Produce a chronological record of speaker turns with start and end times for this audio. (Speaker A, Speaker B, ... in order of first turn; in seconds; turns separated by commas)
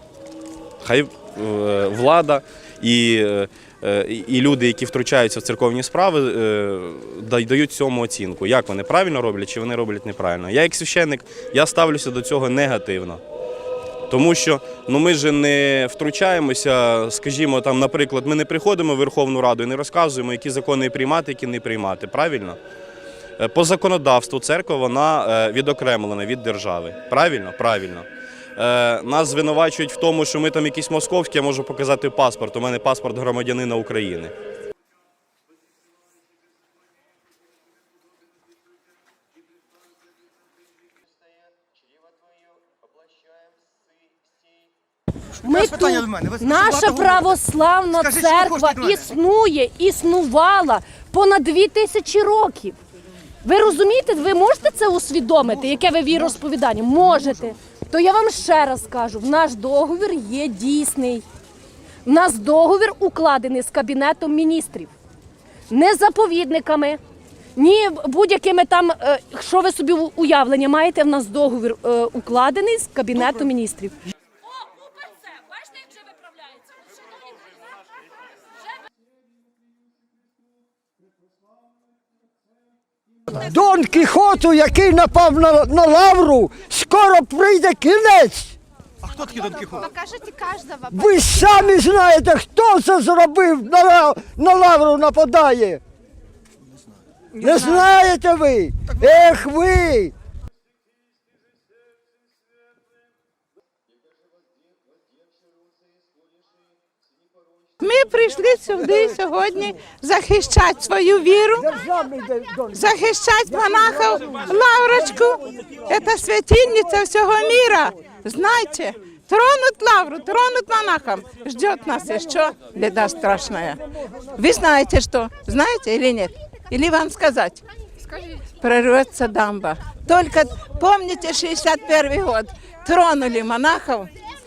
Speaker A: 0.8-13.2, Speaker A: 14.1-22.6, Speaker A: 23.4-34.3, Speaker B: 45.4-52.8, Speaker C: 45.5-47.3, Speaker C: 48.0-49.0, Speaker B: 53.4-61.2, Speaker B: 62.0-64.9, Speaker B: 65.7-67.0, Speaker B: 67.5-74.0, Speaker D: 83.3-88.5, Speaker C: 89.0-89.9, Speaker E: 89.8-91.5, Speaker D: 90.9-95.8, Speaker D: 97.3-100.1, Speaker E: 107.8-111.7, Speaker D: 111.7-112.7, Speaker E: 112.7-127.6, Speaker E: 128.3-134.1